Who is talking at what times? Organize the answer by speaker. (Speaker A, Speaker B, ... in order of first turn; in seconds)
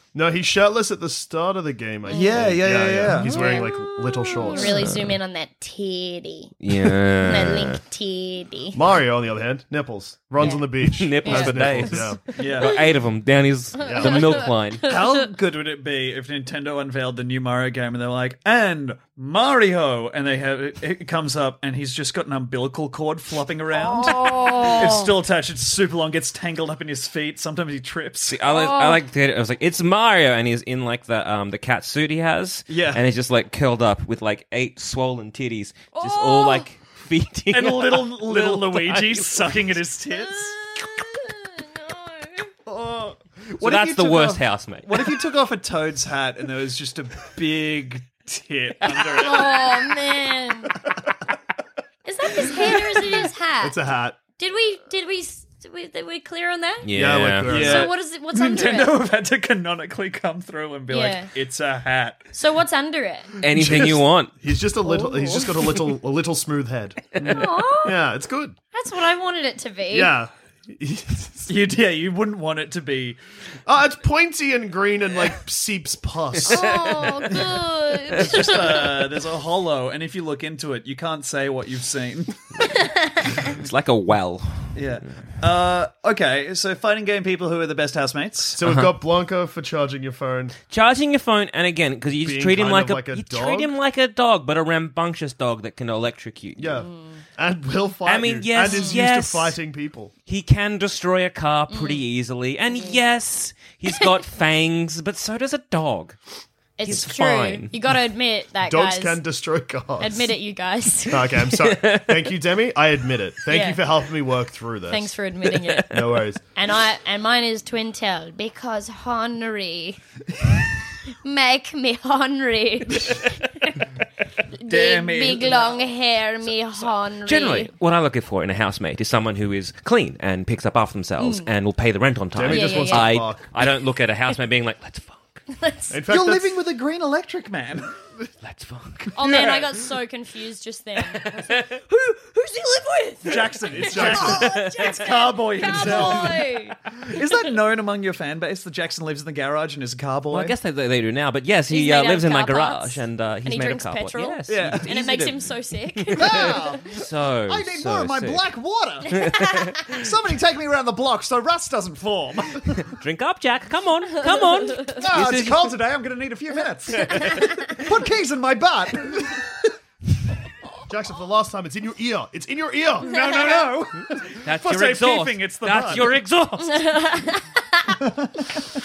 Speaker A: 0.1-4.8, 8.7-12.2, 13.8-14.5, 53.6-54.2, 56.9-57.9, 63.5-67.0, 67.8-68.6, 69.9-71.5, 73.7-76.7, 88.6-90.6, 92.2-93.7, 96.6-100.1, 108.7-110.3, 111.1-115.1, 115.9-116.4, 132.3-133.5, 135.9-136.7, 143.8-144.5, 170.9-173.1
Speaker B: 2.1-2.4, 3.4-3.7, 4.3-8.8, 10.4-10.7, 11.2-11.5, 12.3-12.8, 13.8-15.1, 23.7-25.1, 28.5-29.0, 35.9-36.7, 40.1-42.5, 49.2-50.8, 52.0-53.8, 54.4-56.9, 57.5-59.0, 60.9-61.3, 62.3-63.3, 64.9-65.4, 67.2-68.0, 68.7-70.2, 76.5-79.1, 96.8-97.2, 98.7-99.0, 101.7-102.0, 106.8-109.2, 110.0-111.5, 113.5-113.8, 114.9-115.8, 116.5-120.0, 121.2-123.7, 124.6-127.7, 131.2-131.5, 132.5-133.1, 135.5-136.0, 139.2-146.8, 151.7-156.6, 164.6-164.9, 176.6-178.0
Speaker C: 2.1-3.6, 11.3-12.8, 14.8-28.4, 32.7-33.0, 37.5-40.6, 42.7-49.7, 52.5-52.8, 57.5-62.3, 67.2-67.5, 71.5-73.2, 77.3-82.4, 84.8-88.6, 124.7-125.9, 136.1-138.3, 139.0-139.7, 143.2-150.5, 154.5-154.9, 156.2-162.9, 164.9-169.5, 173.0-176.2, 178.0-178.5
Speaker D: 3.1-5.2, 6.6-7.8, 10.8-14.9, 28.3-39.8, 43.6-45.2, 56.9-57.6, 63.4-64.3, 76.4-77.3, 83.4-84.8, 88.6-88.9, 90.7-96.8, 98.1-99.6, 100.3-106.2, 106.9-107.7, 111.6-112.1, 115.7-116.0, 127.3-135.4, 138.4-139.1, 141.5-141.8, 144.2-144.5, 145.7-146.1, 150.3-158.4, 159.2-159.8, 162.8-165.8, 174.4-176.9